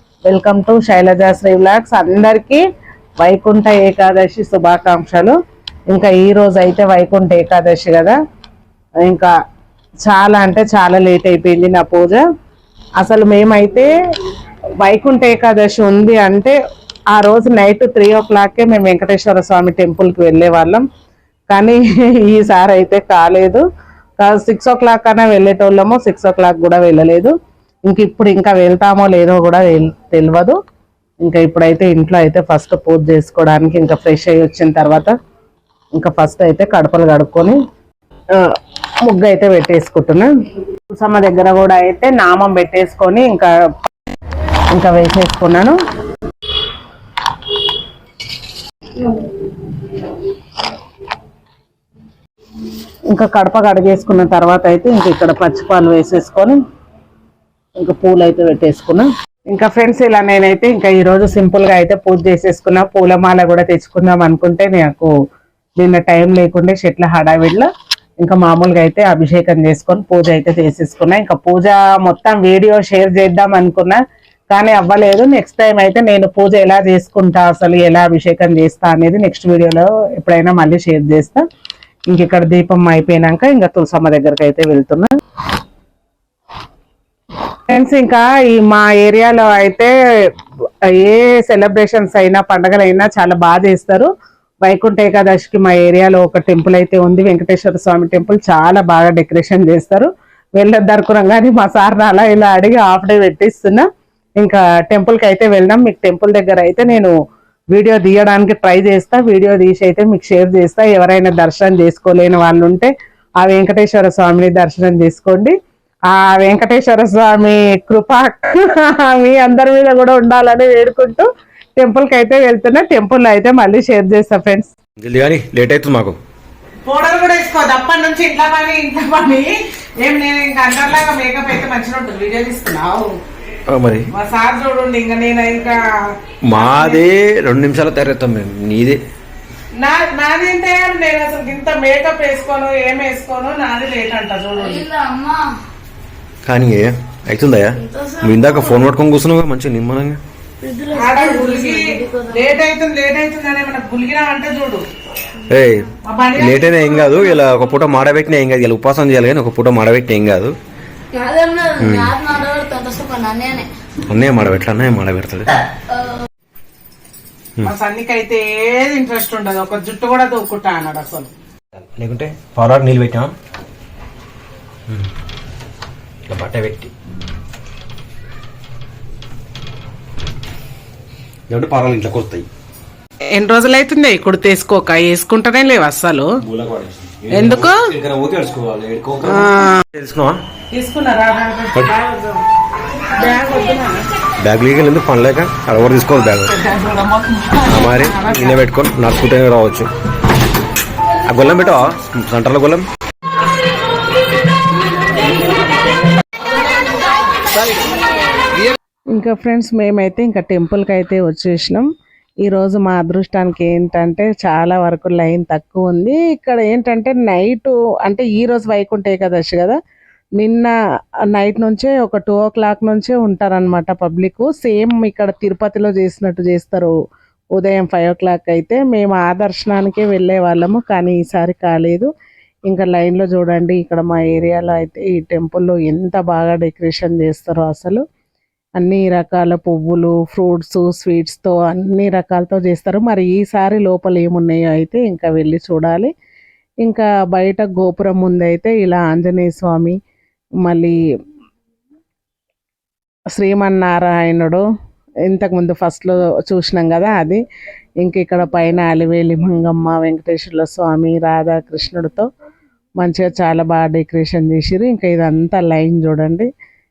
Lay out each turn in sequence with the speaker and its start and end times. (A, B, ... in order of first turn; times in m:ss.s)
0:00.3-0:02.6 A
0:03.2-0:05.4 A
0:05.9-0:08.2 A
0:09.1-0:09.3 A
0:10.0-0:12.2 A
0:13.0-0:13.9 A
0:14.8-0:16.6 A
0:17.2-0:20.8 A
0:21.5-0:23.6 A
0:24.2-0:27.3 A
0:27.9-0:30.6 A
0:31.2-0:35.2 A
0:36.0-0:37.6 A
0:39.0-0:40.3 A
0:40.9-0:43.5 A
0:44.7-0:45.8 A
0:49.0-0:50.2 A
0:53.1-0:56.6 A
0:57.8-1:05.1 A
1:05.8-1:07.7 A
1:08.2-1:21.4 A
1:22.1-1:25.1 A
1:27.7-1:29.9 A
1:30.9-1:34.1 A
1:34.6-1:43.9 A
1:44.4-1:47.1 A
1:47.7-1:55.6 A
1:56.1-2:01.3 A
2:01.8-2:04.7 A
2:05.0-2:06.2 B
2:06.8-2:13.2 A
2:13.7-2:14.1 B
2:14.1-2:15.8 A
2:16.5-2:19.0 B
2:16.5-2:17.0 A
2:19.8-2:24.9 A
2:24.6-2:25.5 C
2:26.4-2:30.2 B
2:27.8-2:28.8 C
2:30.6-2:32.5 C
2:30.9-2:34.8 A
2:35.5-2:40.5 B
2:36.0-2:37.1 A
2:41.1-2:43.7 C
2:41.8-2:42.2 B
2:44.1-2:45.6 B
2:47.6-2:51.3 A
2:51.7-2:53.3 B
2:56.3-2:56.9 B
3:01.5-3:02.5 B
3:03.3-3:06.4 A
3:06.4-3:10.4 B
3:07.3-3:07.9 A
3:09.2-3:09.8 A
3:10.7-3:12.4 A
3:13.0-3:14.0 A
3:14.4-3:16.5 B
3:16.5-3:18.6 A
3:17.7-3:19.9 B
3:21.3-3:22.9 B
3:29.1-3:31.9 A
3:32.4-3:39.8 A
3:40.4-3:40.7 A
3:41.3-3:46.9 A
3:47.6-3:52.1 A
3:52.7-3:58.0 A
3:58.8-4:06.1 A
4:06.8-4:10.0 A
4:10.6-4:11.0 A
4:13.4-4:14.6 A
4:15.2-4:17.4 A
4:18.0-4:22.3 A
4:23.0-4:26.5 A